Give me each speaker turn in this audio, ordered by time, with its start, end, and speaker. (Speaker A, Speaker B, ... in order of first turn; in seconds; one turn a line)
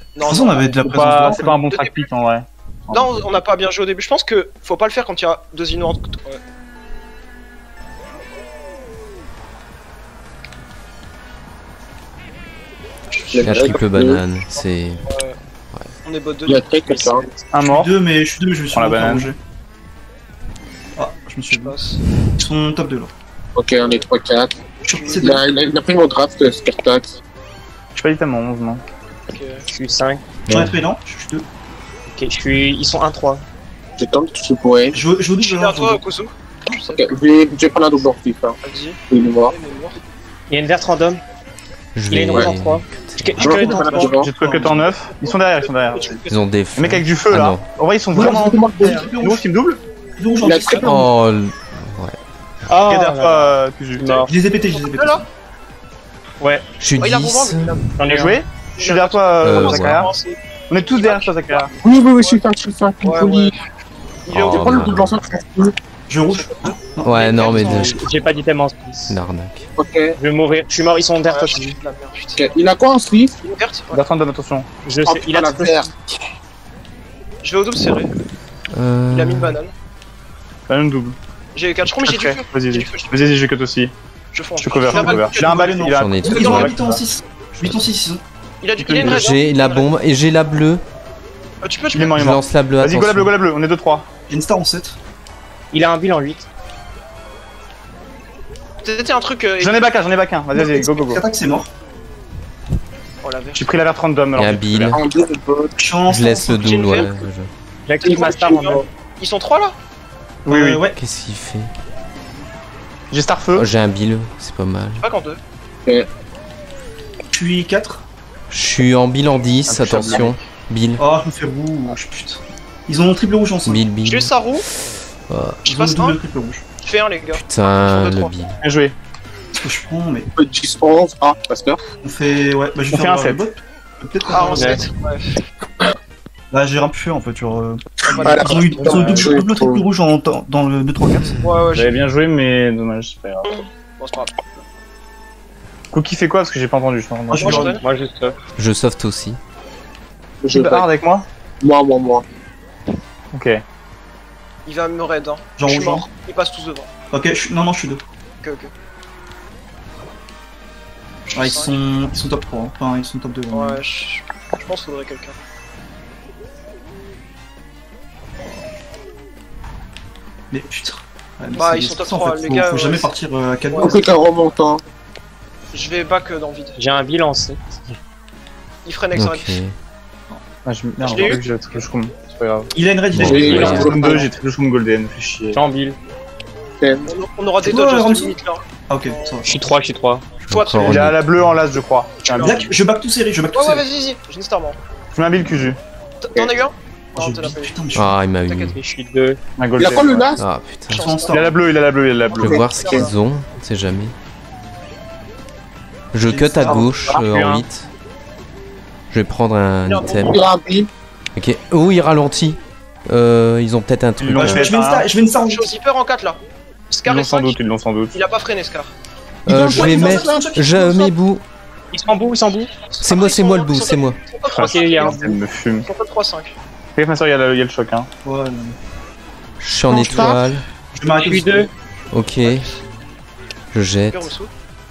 Speaker A: 0.1-2.1
Speaker B: 0.2-1.6
Speaker C: 0.8-3.4
Speaker A: 2.9-6.4
Speaker A: 13.1-13.8
Speaker D: 13.3-14.2
Speaker E: 13.4-15.0
Speaker A: 15.1-15.3
Speaker A: 16.0-17.0
Speaker D: 16.5-17.3
Speaker F: 16.9-17.5
Speaker C: 17.5-17.9
Speaker B: 17.6-19.4
Speaker C: 18.7-19.3
Speaker B: 20.9-21.8
Speaker A: 21.5-22.0
Speaker B: 22.4-23.1
Speaker D: 23.5-24.6
Speaker A: 23.8-24.1
Speaker A: 24.8-25.4
Speaker B: 24.8-25.4
Speaker D: 25.1-27.2
Speaker C: 27.9-28.8
Speaker A: 29.3-29.6
Speaker F: 29.7-30.2
Speaker E: 30.5-30.8
Speaker B: 30.5-31.4
Speaker F: 32.1-33.4
Speaker D: 34.0-35.0
Speaker B: 34.9-36.0
Speaker A: 35.4-37.1
Speaker D: 36.9-38.6
Speaker A: 38.6-40.0
Speaker D: 39.1-39.5
Speaker F: 40.5-41.2
Speaker E: 41.9-43.5
Speaker F: 42.1-44.1
Speaker B: 43.4-44.9
Speaker D: 43.4-44.3
Speaker C: 44.1-46.2
Speaker A: 45.6-46.3
Speaker E: 46.3-47.7
Speaker C: 46.8-49.8
Speaker B: 48.1-49.4
Speaker D: 48.1-49.1
Speaker B: 50.2-51.1
Speaker D: 50.4-51.0
Speaker E: 50.8-52.2
Speaker F: 52.7-54.3
Speaker C: 52.8-54.3
Speaker B: 54.3-55.3
Speaker A: 54.7-55.2
Speaker F: 56.4-56.7
Speaker E: 56.8-57.9
Speaker A: 57.0-57.9
Speaker F: 58.0-58.4
Speaker C: 58.1-60.1
Speaker A: 58.8-60.4
Speaker E: 59.4-60.1
Speaker C: 60.7-61.7
Speaker A: 61.0-62.4
Speaker D: 61.8-63.5
Speaker A: 63.0-63.5
Speaker A: 64.2-64.9
Speaker E: 64.3-65.2
Speaker D: 64.3-65.7
Speaker B: 66.1-67.9
Speaker A: 66.3-68.3
Speaker E: 67.0-68.0
Speaker F: 67.6-69.2
Speaker E: 69.1-69.7
Speaker D: 69.8-70.2
Speaker F: 70.2-71.8
Speaker A: 71.2-72.5
Speaker D: 72.4-73.3
Speaker A: 73.4-74.0
Speaker C: 73.9-74.7
Speaker F: 74.8-75.9
Speaker D: 75.0-75.9
Speaker A: 77.4-78.1
Speaker E: 78.7-79.6
Speaker A: 79.1-79.7
Speaker C: 80.7-81.2
Speaker A: 81.5-83.1
Speaker C: 82.0-83.9
Speaker A: 84.3-86.7
Speaker C: 84.6-86.7
Speaker B: 84.9-88.2
Speaker E: 85.9-86.9
Speaker E: 87.6-87.9
Speaker A: 88.6-89.9
Speaker C: 88.8-89.2
Speaker E: 89.0-90.8
Speaker A: 91.6-92.2
Speaker C: 91.9-94.1
Speaker E: 92.2-93.3
Speaker B: 94.3-95.0
Speaker F: 95.7-96.5
Speaker A: 98.8-99.8
Speaker C: 99.6-101.2
Speaker B: 100.5-101.7
Speaker A: 103.2-103.6
Speaker C: 103.5-105.0
Speaker E: 104.3-105.0
Speaker D: 104.9-105.7
Speaker B: 105.8-106.7
Speaker E: 106.1-107.5
Speaker A: 106.5-107.2
Speaker F: 107.8-108.8
Speaker A: 108.0-109.8
Speaker D: 108.0-108.8
Speaker B: 110.4-111.0
Speaker C: 110.5-110.8
Speaker E: 111.0-111.7
Speaker C: 113.1-113.7
Speaker E: 113.5-115.0
Speaker A: 115.0-115.4
Speaker B: 117.3-118.0
Speaker E: 118.5-121.0
Speaker C: 119.7-120.4
Speaker B: 121.0-123.9
Speaker E: 123.7-125.6
Speaker A: 124.0-124.7
Speaker B: 125.6-126.7
Speaker A: 125.7-126.2
Speaker A: 126.8-128.4
Speaker E: 127.3-128.6
Speaker C: 128.6-128.9
Speaker B: 129.6-130.3
Speaker D: 130.3-131.8
Speaker B: 132.0-134.8
Speaker C: 132.9-133.4
Speaker A: 134.3-135.3
Speaker F: 134.5-134.8
Speaker B: 136.5-141.4
Speaker A: 138.0-139.2
Speaker D: 138.0-139.8
Speaker A: 141.4-142.0
Speaker C: 141.7-143.6
Speaker A: 143.4-144.3
Speaker C: 145.9-147.7
Speaker B: 147.3-147.8
Speaker A: 147.3-147.8
Speaker F: 147.8-148.3
Speaker E: 148.6-149.4
Speaker D: 150.4-150.9
Speaker C: 150.5-151.3
Speaker D: 151.6-152.2
Speaker C: 153.3-153.6
Speaker A: 154.7-156.9
Speaker B: 155.6-156.1
Speaker B: 157.1-158.0
Speaker A: 158.4-158.7
Speaker A: 161.3-161.8
Speaker B: 161.3-163.8
Speaker A: 163.5-165.3
Speaker B: 170.5-174.0
Speaker A: 171.6-173.1
Speaker A: 173.7-174.0
Speaker D: 173.8-174.8
Speaker A: 175.7-176.8
Speaker F: 176.8-177.9
Speaker A: 178.8-179.6
Speaker E: 179.1-179.7
Speaker C: 180.6-182.7
Speaker A: 181.0-181.8
Speaker B: 182.7-184.2
Speaker E: 183.1-183.9
Speaker D: 183.2-184.3
Speaker C: 183.4-185.6
Speaker F: 185.5-186.0
Speaker D: 186.8-187.1
Speaker A: 187.1-189.3
Speaker B: 187.6-188.4
Speaker B: 188.9-189.5
Speaker F: 189.4-190.3
Speaker E: 190.4-191.4
Speaker A: 190.5-191.1
Speaker C: 190.7-192.8
Speaker B: 192.4-193.8
Speaker A: 193.5-194.8
Speaker C: 195.1-195.8
Speaker A: 196.2-197.8
Speaker B: 197.2-198.2
Speaker E: 197.9-198.8
Speaker A: 198.4-198.8
Speaker F: 198.7-199.4
Speaker C: 199.6-200.3
Speaker D: 199.8-200.4
Speaker E: 200.4-201.1
Speaker A: 200.9-201.5
Speaker B: 200.9-201.6
Speaker C: 201.3-202.6
Speaker A: 202.3-203.1
Speaker D: 202.3-203.1
Speaker E: 202.4-204.1
Speaker E: 206.1-207.9
Speaker B: 206.3-207.0
Speaker F: 206.7-207.6
Speaker E: 209.1-210.3
Speaker A: 209.8-210.5
Speaker D: 210.3-210.9
Speaker E: 211.3-214.7
Speaker C: 214.2-215.1
Speaker B: 214.3-215.7
Speaker A: 215.4-216.4
Speaker A: 216.9-217.6
Speaker C: 217.1-218.2
Speaker A: 218.1-218.9
Speaker E: 219.4-221.4
Speaker D: 219.5-220.5
Speaker B: 219.5-221.2
Speaker F: 221.9-222.8
Speaker A: 222.9-226.6
Speaker E: 223.0-224.2
Speaker C: 224.5-225.9
Speaker F: 224.6-225.2
Speaker C: 226.9-228.1
Speaker B: 228.2-228.8
Speaker E: 229.6-230.7
Speaker D: 229.9-230.4
Speaker B: 229.9-230.4
Speaker B: 230.9-231.7
Speaker F: 231.1-231.7
Speaker E: 232.1-232.7
Speaker A: 232.4-232.7
Speaker E: 233.7-234.3
Speaker A: 234.1-234.5